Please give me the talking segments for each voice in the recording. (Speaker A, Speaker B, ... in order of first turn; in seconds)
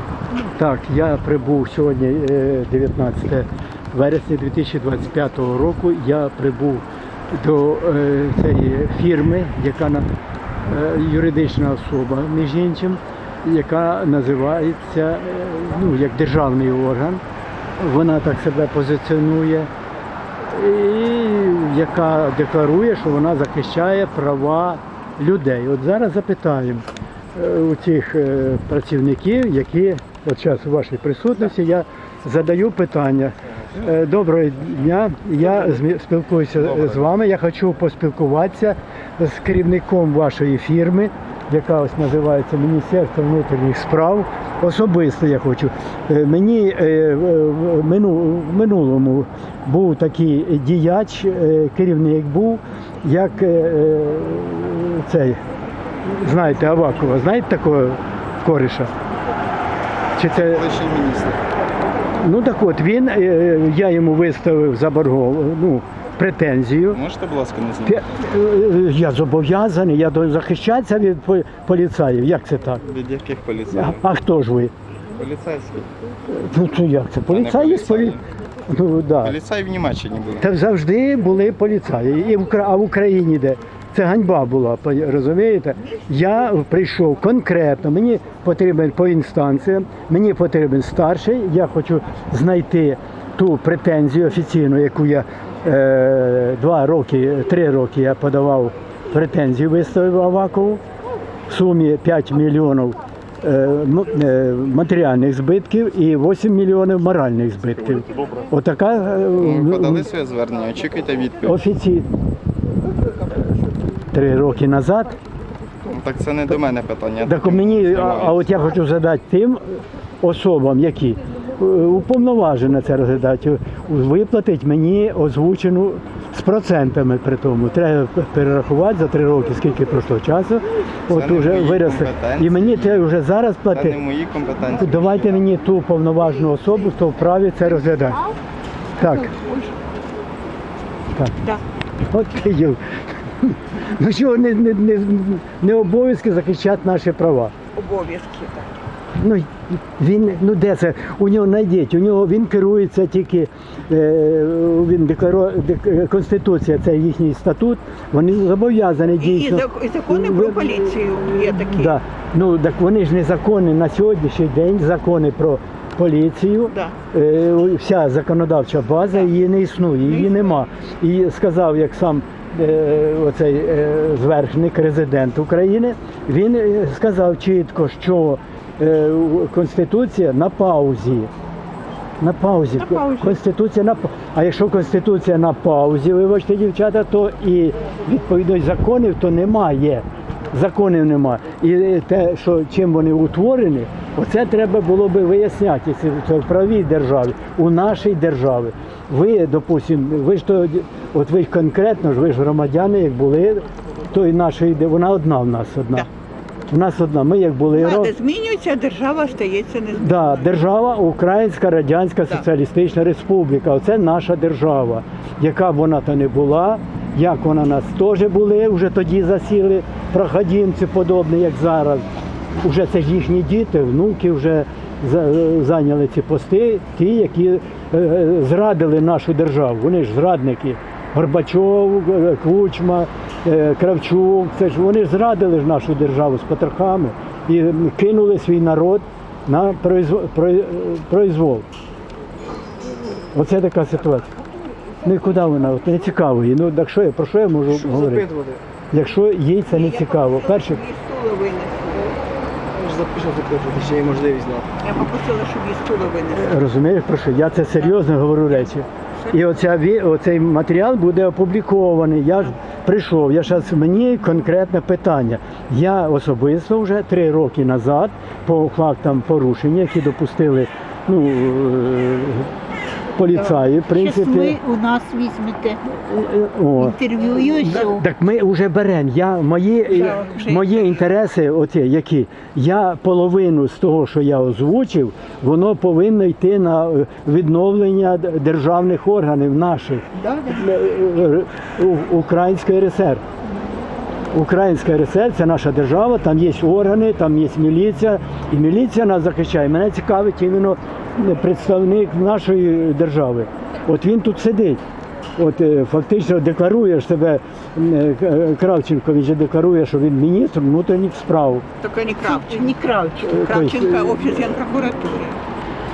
Speaker A: 0.4-10.1, 10.7-17.2, 17.8-19.7, 20.5-55.4, 56.0-58.9, 60.2-60.6, 62.2-67.0, 67.8-72.8, 73.7-74.7, 76.3-78.2, 78.7-79.3, 80.4-100.8, 101.5-110.0, 111.5-112.1, 114.1-115.2, 117.2-134.0, 134.8-138.2, 139.0-139.3, 142.1-142.8, 143.4-147.5, 149.2-181.3, 182.2-206.1, 206.7-208.1, 210.0-222.1, 222.6-241.7, 243.3-244.3, 245.0-248.3, 248.9-250.8, 256.3-272.5, 273.2-274.6, 275.9-277.0, 277.6-293.2, 294.3-304.8, 305.4-311.6, 313.2-314.3
Speaker B: 36.7-37.0, 60.2-61.4, 66.9-68.2, 72.9-74.0, 75.2-75.9, 77.3-78.2, 79.2-80.5, 109.4-111.6, 115.8-118.5, 131.1-133.1, 133.7-135.5
Speaker C: 139.0-139.7, 147.8-148.8, 159.2-162.0, 170.1-170.6, 182.8-183.4, 207.7-210.5, 249.7-252.1, 254.8-256.5, 259.2-259.4, 279.9-281.0, 311.8-312.8, 313.4-315.4
Speaker D: 247.7-248.6, 252.7-254.8
Speaker E: 273.4-275.8, 276.8-278.0, 290.1-290.7, 312.2-313.4